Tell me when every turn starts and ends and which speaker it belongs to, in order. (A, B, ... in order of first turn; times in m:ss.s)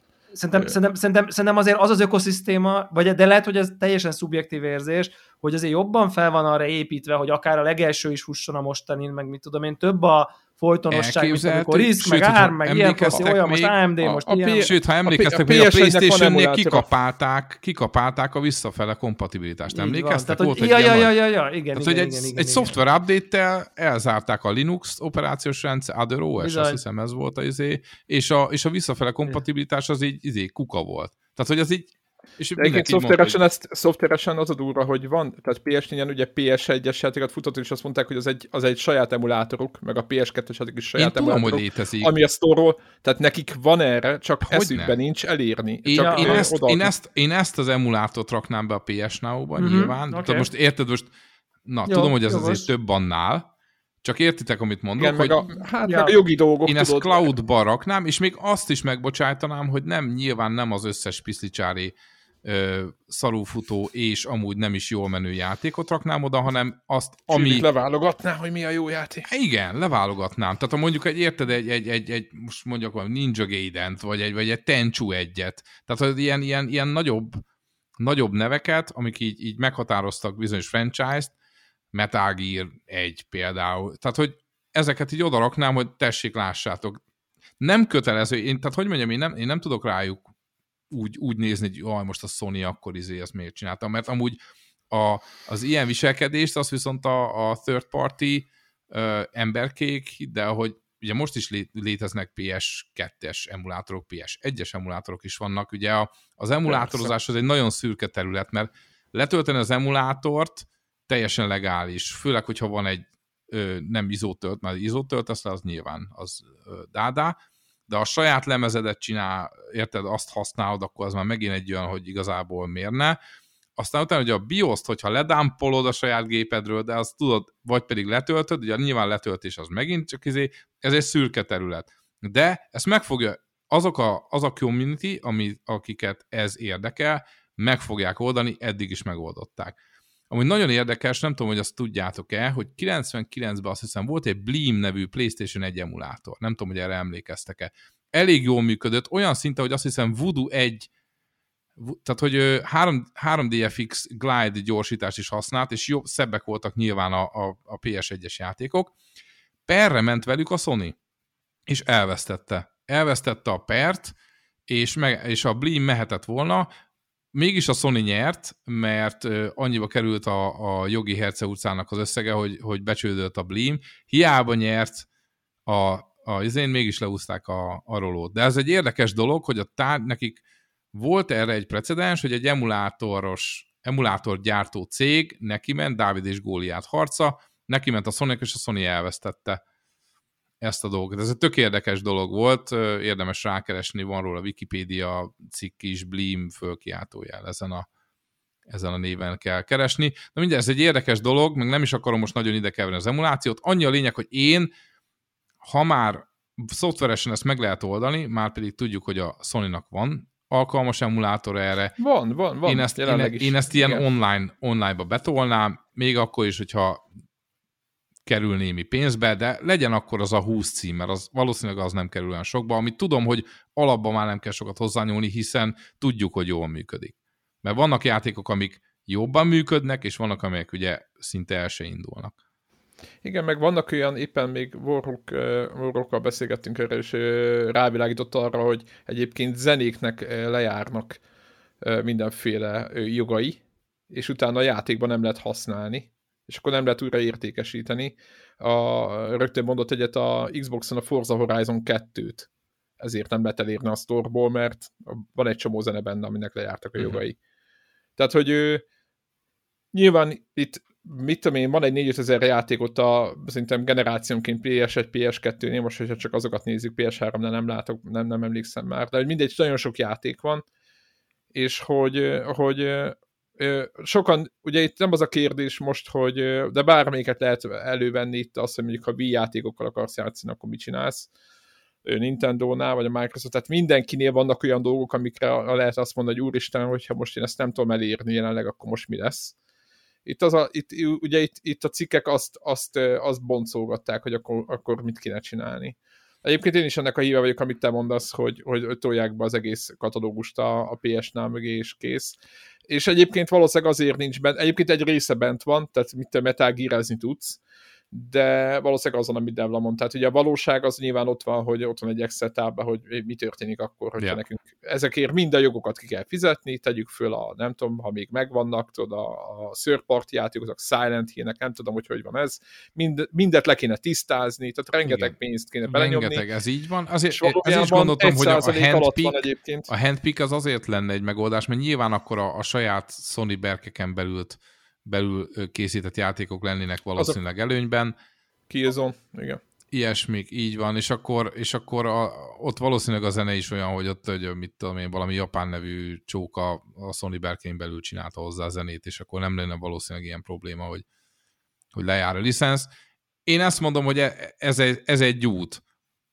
0:00.3-0:14.7 A
0:10.9-0:13.8 B
0:14.0-0:16.9 C
0:14.6-0:21.2 B
0:19.7-0:22.8 A
0:21.7-0:33.4 B
0:26.4-0:26.8 A
0:32.6-0:46.9 C
0:41.0-0:42.1 B
0:44.5-0:45.0 B
0:45.9-0:51.1 B
0:46.0-0:46.5 A
0:49.6-0:50.5 A
0:51.7-0:53.5 B
0:51.9-0:52.7 A
0:54.0-0:55.4 B
0:55.0-0:57.3 C
0:55.9-0:56.2 A
0:56.7-1:07.7 B
1:07.3-1:09.3 C
1:09.3-1:17.4 B
1:18.0-1:21.3 B
1:21.9-1:27.0 B
1:27.6-1:30.2 B
1:30.9-1:34.4 B
1:34.9-1:57.4 B
1:46.7-1:47.1 C
1:57.9-2:03.2 B
2:03.8-2:19.8 B
2:20.3-2:30.9 B
2:31.8-2:39.0 B
2:39.7-2:41.0 B
2:41.7-2:44.2 B
2:44.7-2:46.7 B
2:47.3-2:55.1 B
2:55.7-3:00.4 B
3:00.9-3:09.6 B
3:10.6-3:17.9 B
3:18.7-3:24.7 B
3:25.6-3:32.0 B
3:32.0-3:34.0 C
3:32.7-3:37.0 B
3:38.3-3:52.3 B
3:53.2-4:01.2 C
4:01.8-4:12.5 C
4:13.0-4:17.4 C
4:18.2-4:18.8 C
4:19.9-4:30.6 C
4:31.5-4:41.3 C
4:42.0-4:49.6 C
4:50.3-5:02.4 C
5:02.9-5:07.6 C
5:08.1-5:26.5 C
5:25.0-5:25.4 B
5:25.9-5:38.1 B
5:27.4-5:29.9 C
5:38.7-5:39.6 C
5:39.9-5:51.0 B
5:51.9-5:52.9 B
5:53.5-5:55.8 B